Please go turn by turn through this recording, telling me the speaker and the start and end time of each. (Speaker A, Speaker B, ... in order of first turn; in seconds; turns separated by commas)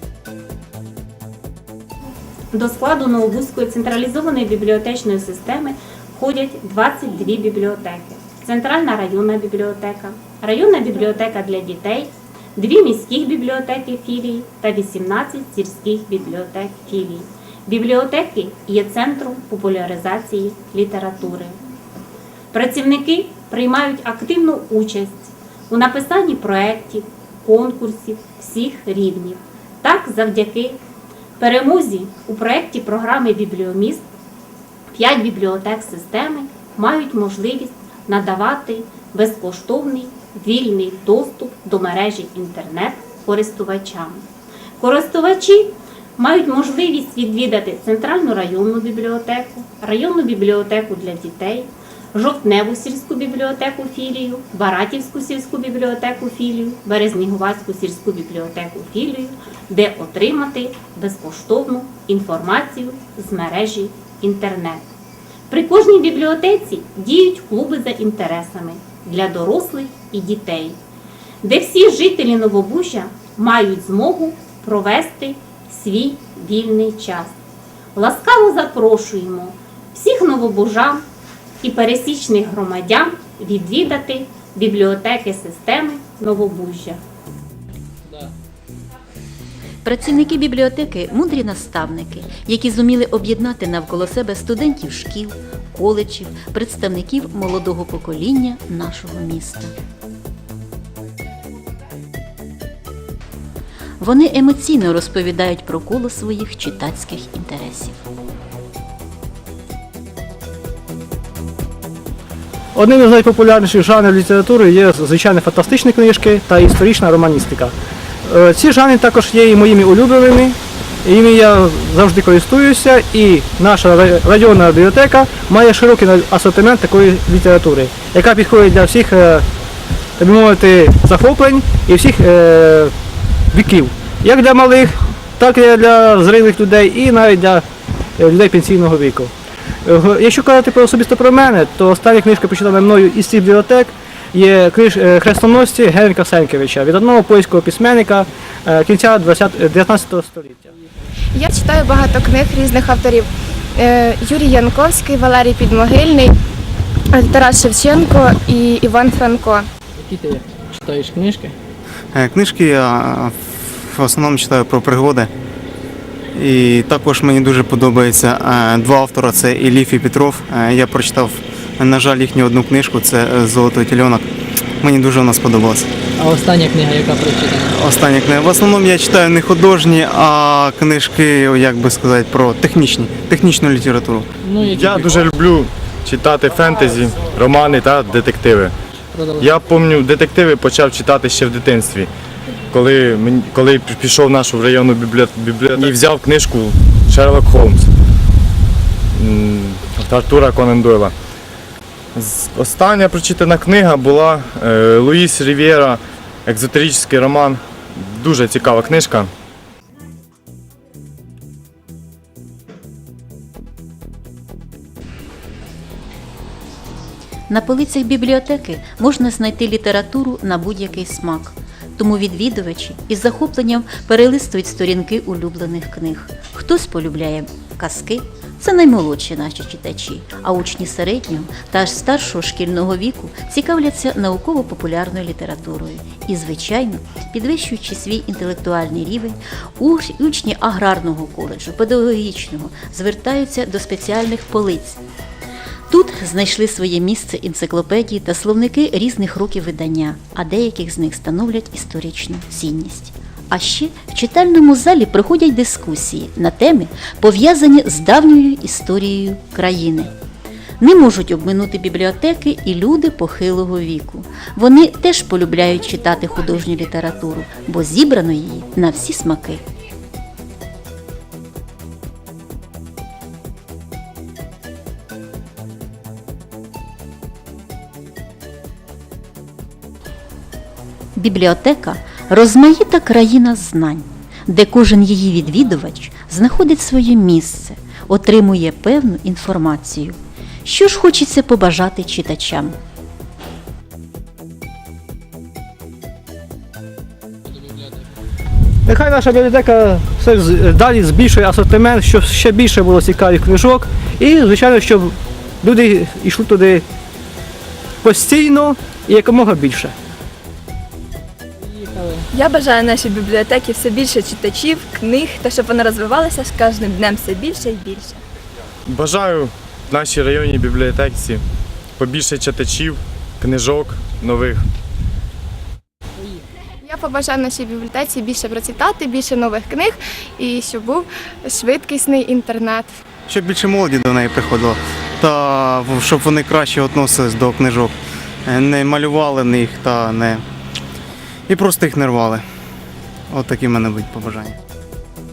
Speaker A: 2.5-21.6, Speaker A: 22.5-30.8, Speaker A: 31.4-34.1, Speaker A: 34.9-44.2, Speaker A: 44.8-64.8, Speaker A: 65.5-70.8, Speaker A: 71.4-77.3, Speaker A: 78.0-81.0, Speaker A: 81.6-87.0, Speaker B: 89.8-99.7, Speaker B: 104.0-108.0, Speaker C: 112.7-117.7, Speaker C: 118.2-129.4, Speaker C: 130.2-132.9, Speaker C: 133.5-137.6, Speaker C: 138.2-139.3, Speaker C: 139.8-150.7, Speaker D: 151.3-156.3, Speaker D: 157.1-159.7, Speaker E: 160.0-161.6, Speaker F: 162.1-165.3, Speaker F: 166.3-174.3, Speaker F: 174.8-175.9, Speaker E: 176.2-177.8, Speaker F: 177.7-184.3, Speaker E: 184.4-184.9, Speaker G: 184.7-188.7, Speaker F: 184.9-185.1, Speaker E: 189.1-189.5, Speaker G: 189.4-192.1, Speaker G: 192.7-197.9, Speaker G: 199.1-201.1, Speaker G: 202.1-209.3, Speaker B: 217.5-245.0, Speaker B: 245.9-260.1, Speaker B: 260.8-269.6, Speaker B: 281.1-292.8, Speaker C: 298.9-306.8, Speaker C: 308.0-309.9, Speaker E: 311.7-312.3, Speaker H: 312.3-318.2, Speaker G: 318.9-321.4, Speaker G: 322.0-324.6, Speaker D: 326.8-333.0, Speaker F: 333.3-340.4, Speaker F: 341.5-342.4, Speaker F: 343.3-344.6